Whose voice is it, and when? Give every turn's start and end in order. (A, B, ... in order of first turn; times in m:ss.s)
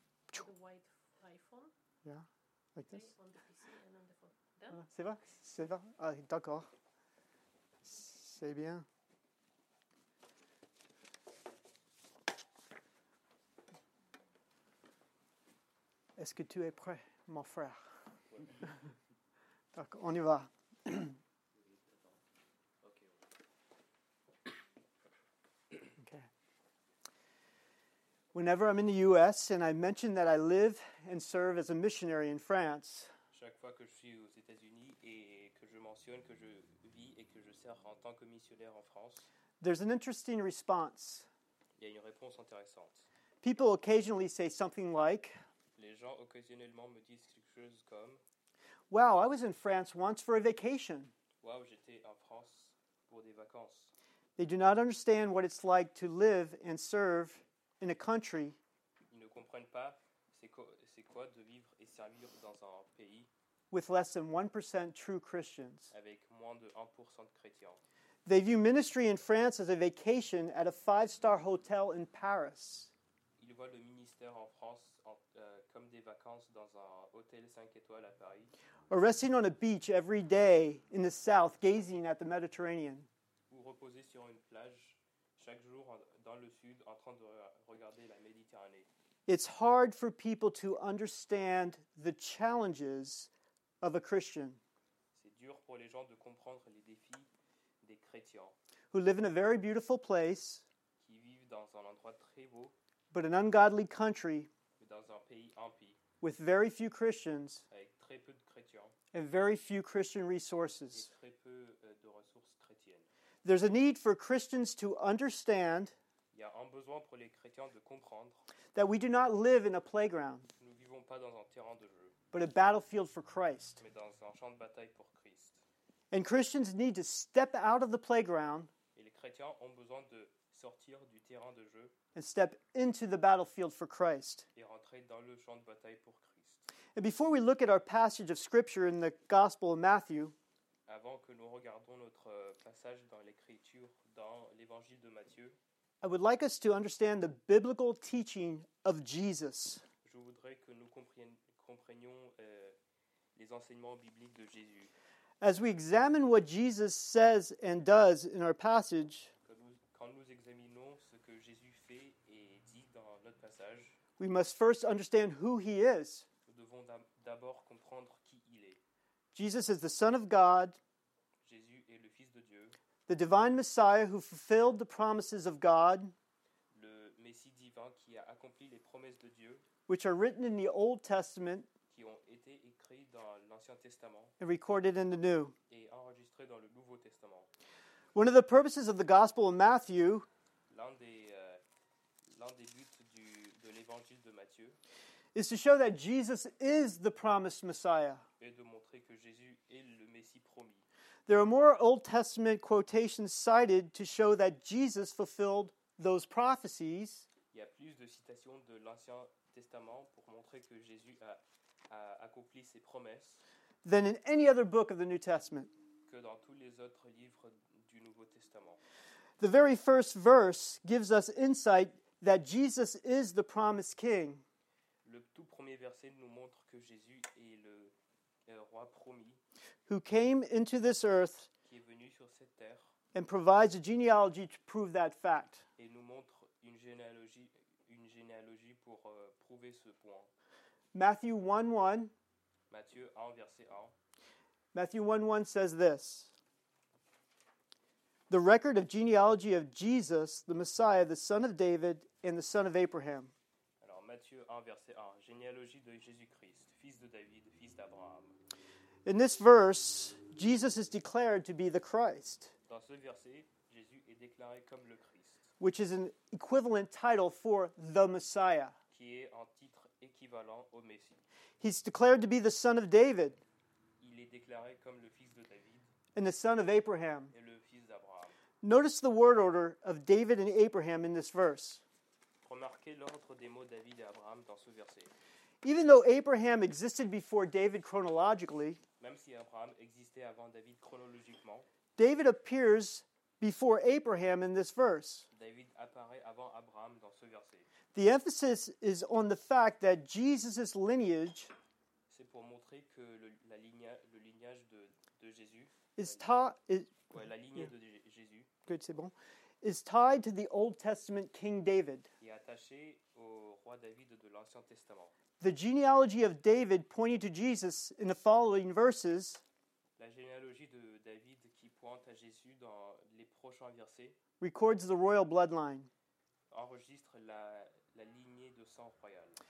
0:00.3-0:01.7 A
0:02.0-0:03.0 B
0:02.8-0:04.8 A
0:04.7-0:06.7 B
0:07.8-0:08.8 B
0:16.2-0:17.8 B
0:18.3-0:18.6 C
0:19.7-0:21.2 B
0:21.6-0:22.2 C
0:22.8-0:23.2 C
0:26.0-0:26.3 B
0:28.3-0:33.1 B
0:33.3-0:39.3 C
0:39.6-0:41.3 B
0:41.8-0:43.1 C
0:43.4-0:45.4 B
0:45.8-0:48.2 C
0:48.9-0:51.1 B
0:51.4-0:53.9 C
0:54.4-0:58.6 B
0:59.1-1:03.3 C
1:03.7-1:05.9 B
1:05.9-1:07.8 C
1:08.3-1:12.9 B
1:13.4-1:18.5 C
1:18.9-1:23.1 B
1:23.5-1:28.9 C
1:29.3-1:33.3 B
1:33.8-1:34.6 B
1:35.2-1:37.3 C
1:37.8-1:38.6 C
1:38.9-1:40.6 B
1:41.0-1:42.8 C
1:43.1-1:44.5 B
1:44.8-1:46.0 C
1:46.2-1:47.6 B
1:47.7-1:49.0 C
1:49.1-1:51.1 B
1:50.9-1:53.1 C
1:53.4-1:55.9 B
1:56.3-1:58.4 C
1:58.8-2:00.5 B
2:00.6-2:02.2 C
2:02.3-2:03.8 B
2:03.8-2:05.6 C
2:06.1-2:08.7 B
2:09.0-2:12.0 C
2:12.2-2:14.5 B
2:14.6-2:16.7 C
2:17.0-2:20.4 B
2:20.9-2:25.6 C
2:26.0-2:29.8 B
2:30.0-2:32.8 C
2:33.4-2:34.9 C
2:35.4-2:39.3 B
2:39.5-2:44.0 C
2:44.2-2:46.2 B
2:46.5-2:48.8 C
2:49.4-2:50.8 B
2:51.4-2:52.8 C
2:53.1-2:56.1 B
2:56.7-2:59.7 C
2:59.9-3:01.7 B
3:01.9-3:04.3 C
3:04.4-3:05.5 B
3:05.7-3:07.5 C
3:08.2-3:10.3 B
3:10.7-3:11.6 C
3:12.3-3:14.8 C
3:15.4-3:18.2 B
3:18.4-3:20.9 C
3:21.3-3:27.3 B
3:27.5-3:33.4 C
3:33.8-3:35.7 B
3:36.1-3:38.8 C
3:39.4-3:44.4 B
3:45.0-3:47.9 C
3:48.5-3:49.4 C
3:49.9-3:51.5 B
3:51.7-3:52.9 C
3:53.1-3:55.6 B
3:55.8-4:00.3 C
4:00.9-4:02.1 B
4:02.7-4:04.0 C
4:04.7-4:06.3 B
4:08.3-4:13.3 B
4:13.8-4:18.4 C
4:19.0-4:22.5 B
4:22.7-4:25.5 C
4:25.6-4:28.8 B
4:28.9-4:31.2 C
4:31.6-4:33.4 B
4:34.0-4:35.9 C
4:36.2-4:37.3 B
4:37.3-4:38.3 C
4:38.6-4:41.8 B
4:42.4-4:45.1 C
4:45.6-4:48.8 B
4:49.0-4:51.7 C
4:52.0-4:55.3 B
4:55.3-4:57.7 C
4:57.9-5:01.5 B
5:02.1-5:06.3 C
5:06.0-5:07.7 B
5:07.1-5:08.5 C
5:08.7-5:12.1 B
5:12.2-5:15.2 C
5:15.4-5:19.4 B
5:20.0-5:24.2 C
5:24.4-5:25.9 B
5:26.5-5:29.4 C